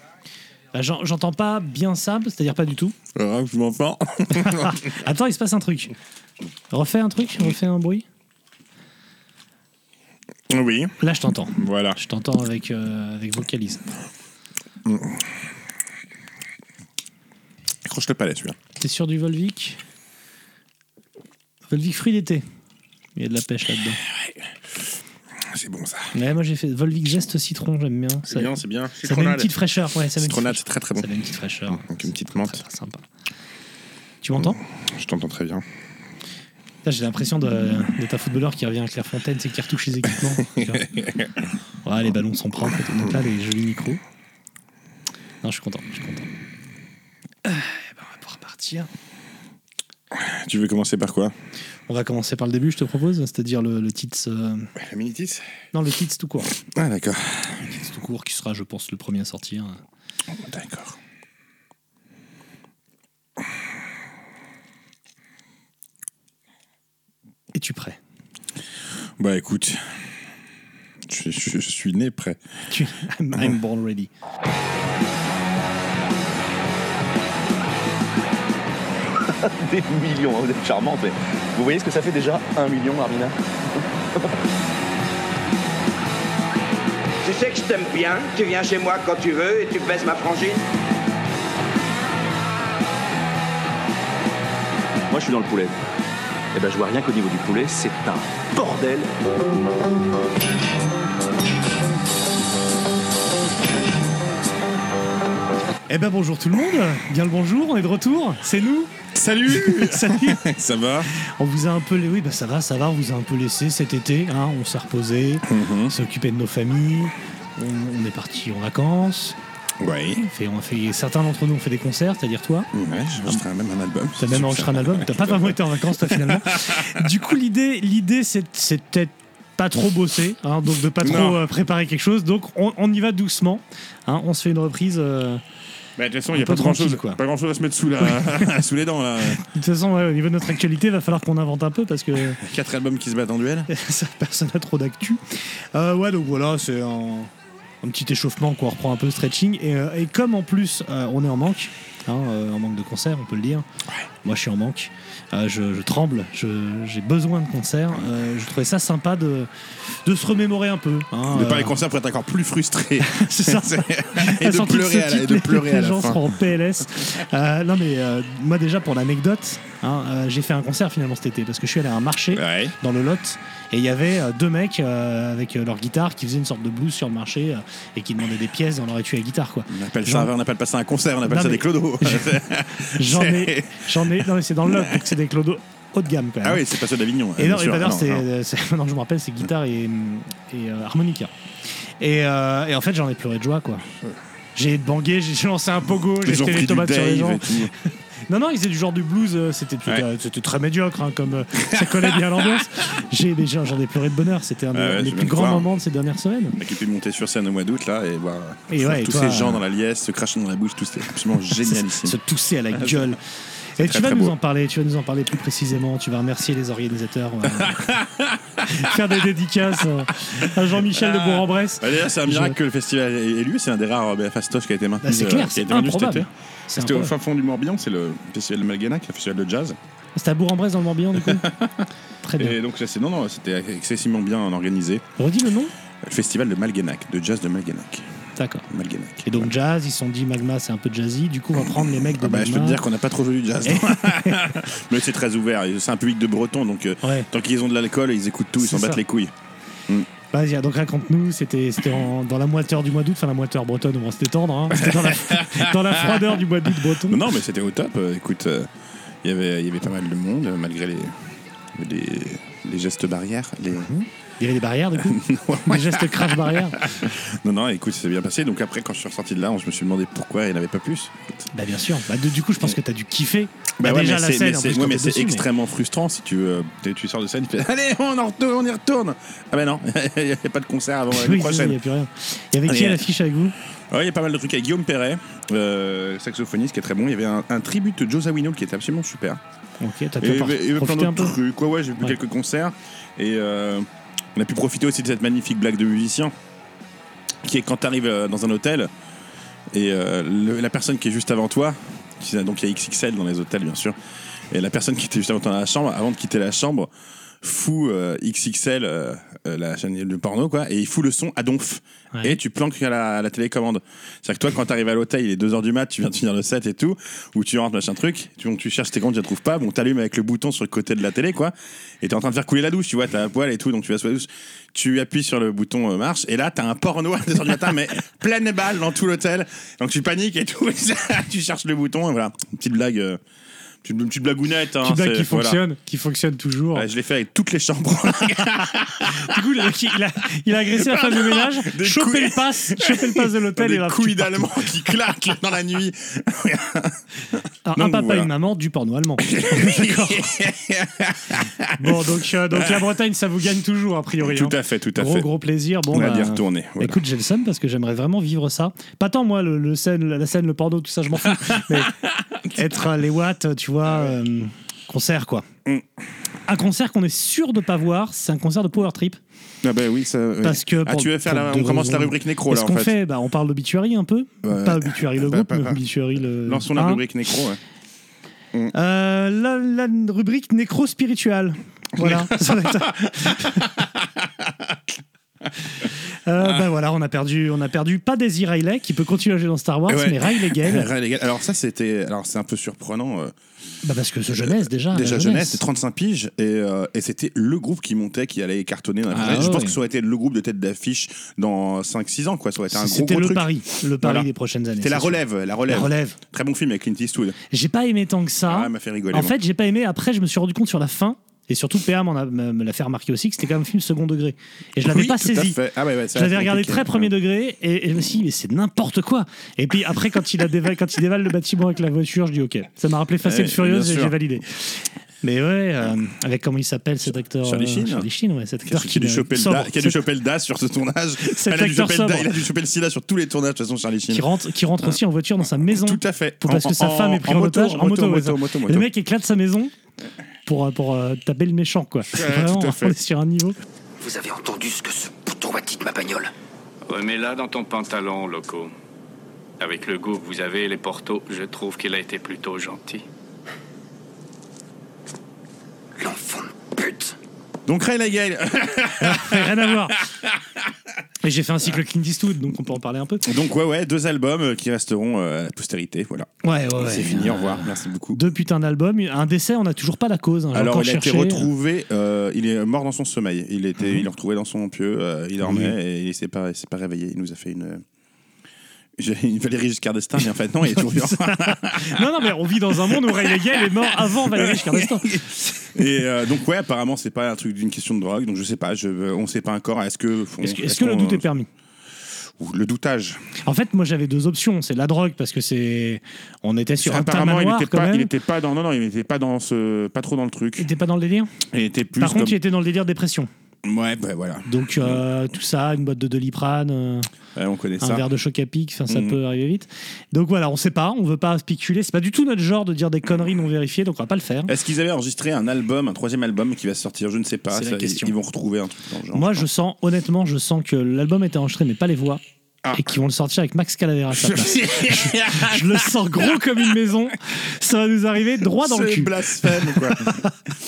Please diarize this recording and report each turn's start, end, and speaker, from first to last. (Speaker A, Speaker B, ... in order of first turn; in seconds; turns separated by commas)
Speaker A: 0.7-3.0, Speaker B: 3.1-4.9, Speaker A: 4.3-5.9, Speaker A: 6.7-8.1, Speaker B: 10.5-10.9, Speaker A: 11.0-13.9, Speaker B: 11.6-12.0, Speaker B: 14.8-15.2, Speaker B: 17.9-18.6, Speaker A: 18.8-19.8, Speaker A: 21.7-22.4, Speaker A: 23.2-24.0, Speaker B: 24.1-24.4, Speaker B: 25.4-26.1, Speaker A: 26.1-33.0, Speaker B: 28.2-29.5, Speaker B: 30.2-31.1, Speaker B: 31.7-32.6, Speaker A: 34.2-34.6, Speaker B: 34.4-35.6, Speaker A: 36.9-40.9, Speaker B: 40.4-41.4, Speaker A: 41.9-44.0, Speaker A: 45.4-46.3, Speaker A: 47.5-48.9, Speaker B: 50.1-51.3, Speaker A: 51.9-54.7, Speaker B: 54.8-55.5, Speaker A: 55.7-56.6, Speaker B: 56.6-57.6, Speaker A: 57.6-59.8, Speaker B: 60.3-61.0, Speaker A: 67.5-68.0, Speaker B: 69.2-69.8, Speaker B: 71.1-72.4, Speaker A: 72.7-74.1, Speaker C: 79.3-83.3, Speaker D: 87.2-90.6, Speaker C: 95.1-95.8, Speaker C: 96.5-99.1, Speaker A: 105.9-108.9, Speaker B: 109.2-111.1, Speaker A: 109.5-110.4, Speaker A: 111.2-119.4, Speaker B: 115.5-115.9, Speaker B: 119.8-120.3, Speaker A: 120.3-122.7, Speaker B: 122.7-127.1, Speaker A: 124.2-135.4, Speaker B: 131.0-131.4, Speaker B: 136.0-139.4, Speaker A: 136.3-137.2, Speaker A: 139.4-142.4, Speaker B: 142.4-143.7, Speaker A: 143.7-145.2, Speaker A: 145.7-147.3, Speaker A: 147.8-153.7, Speaker A: 154.2-159.5, Speaker A: 160.0-161.7, Speaker B: 161.3-166.4, Speaker A: 163.0-180.3, Speaker B: 172.3-172.8, Speaker B: 179.7-185.1, Speaker A: 181.3-186.6, Speaker B: 186.4-188.3, Speaker A: 187.4-191.3, Speaker A: 192.0-193.9, Speaker A: 194.6-197.7, Speaker B: 196.2-197.7, Speaker A: 198.3-206.6, Speaker B: 201.6-202.4, Speaker B: 204.7-205.7, Speaker B: 206.5-212.2, Speaker A: 208.7-209.6, Speaker A: 211.6-213.2, Speaker B: 212.9-213.1, Speaker A: 213.8-218.0, Speaker B: 213.8-214.3, Speaker B: 217.5-218.9, Speaker A: 218.6-222.6, Speaker B: 220.8-229.8, Speaker A: 225.0-227.1, Speaker A: 230.2-231.5, Speaker B: 231.2-231.9, Speaker A: 232.2-232.6, Speaker B: 232.4-235.1, Speaker A: 235.2-235.7, Speaker B: 236.0-238.1, Speaker A: 238.4-238.7, Speaker B: 238.7-239.5, Speaker A: 239.2-242.8, Speaker B: 242.2-249.3, Speaker A: 243.7-244.5, Speaker A: 247.0-247.3, Speaker A: 248.6-249.0, Speaker A: 250.3-257.2, Speaker B: 254.7-256.4, Speaker B: 257.1-258.7, Speaker B: 259.2-261.1, Speaker B: 261.7-263.9, Speaker A: 263.9-266.8, Speaker B: 265.0-271.2, Speaker A: 271.5-275.4, Speaker B: 273.8-281.8, Speaker A: 281.1-283.6, Speaker B: 282.6-283.1, Speaker B: 283.9-289.4, Speaker A: 289.8-291.3, Speaker B: 290.2-296.3, Speaker B: 297.4-298.9, Speaker B: 299.7-304.0, Speaker B: 304.5-306.9, Speaker B: 307.4-333.2, Speaker B: 333.8-335.6, Speaker A: 334.8-336.9, Speaker B: 336.7-339.4, Speaker A: 339.1-344.7, Speaker B: 340.7-348.3, Speaker A: 347.7-350.4, Speaker B: 349.2-352.8, Speaker A: 351.8-361.9, Speaker B: 354.2-355.3, Speaker B: 355.9-357.0, Speaker B: 361.2-362.6, Speaker A: 362.5-365.5, Speaker A: 366.5-369.2, Speaker B: 369.6-373.0, Speaker A: 370.4-377.0, Speaker B: 374.4-375.8, Speaker B: 376.4-377.6, Speaker A: 378.7-383.7, Speaker B: 382.0-384.8, Speaker A: 386.1-390.9, Speaker B: 389.9-393.3, Speaker A: 393.8-395.6, Speaker B: 394.4-403.5, Speaker A: 399.1-399.8, Speaker A: 402.7-406.2, Speaker B: 404.0-407.4, Speaker A: 407.5-415.6, Speaker B: 408.5-409.4, Speaker B: 414.8-417.1, Speaker A: 416.1-430.0, Speaker B: 423.2-424.2, Speaker B: 427.3-428.1, Speaker B: 428.7-434.3, Speaker A: 431.2-432.4, Speaker A: 434.1-439.7, Speaker B: 435.6-438.9, Speaker A: 440.5-443.6, Speaker B: 442.1-443.0, Speaker E: 444.0-446.3, Speaker F: 446.9-448.7, Speaker F: 449.6-453.0, Speaker E: 456.0-457.1, Speaker B: 457.7-459.9, Speaker A: 459.0-460.0, Speaker A: 461.2-463.3, Speaker B: 463.2-468.2, Speaker A: 466.4-471.5, Speaker B: 470.5-477.8, Speaker A: 475.4-475.7, Speaker B: 479.0-482.0, Speaker A: 481.2-485.6, Speaker B: 482.9-491.3, Speaker A: 490.4-491.5, Speaker B: 492.4-493.2, Speaker A: 493.4-498.1, Speaker B: 496.8-500.7, Speaker A: 500.6-501.3, Speaker B: 501.5-502.4, Speaker A: 502.0-503.3, Speaker B: 503.6-505.0, Speaker A: 504.5-507.1, Speaker B: 507.4-508.1, Speaker A: 507.8-514.5, Speaker B: 508.9-509.2, Speaker B: 514.5-519.5, Speaker A: 517.5-518.1, Speaker A: 519.1-522.2, Speaker B: 522.6-522.9, Speaker A: 522.7-530.3, Speaker B: 524.1-526.3, Speaker B: 528.4-530.2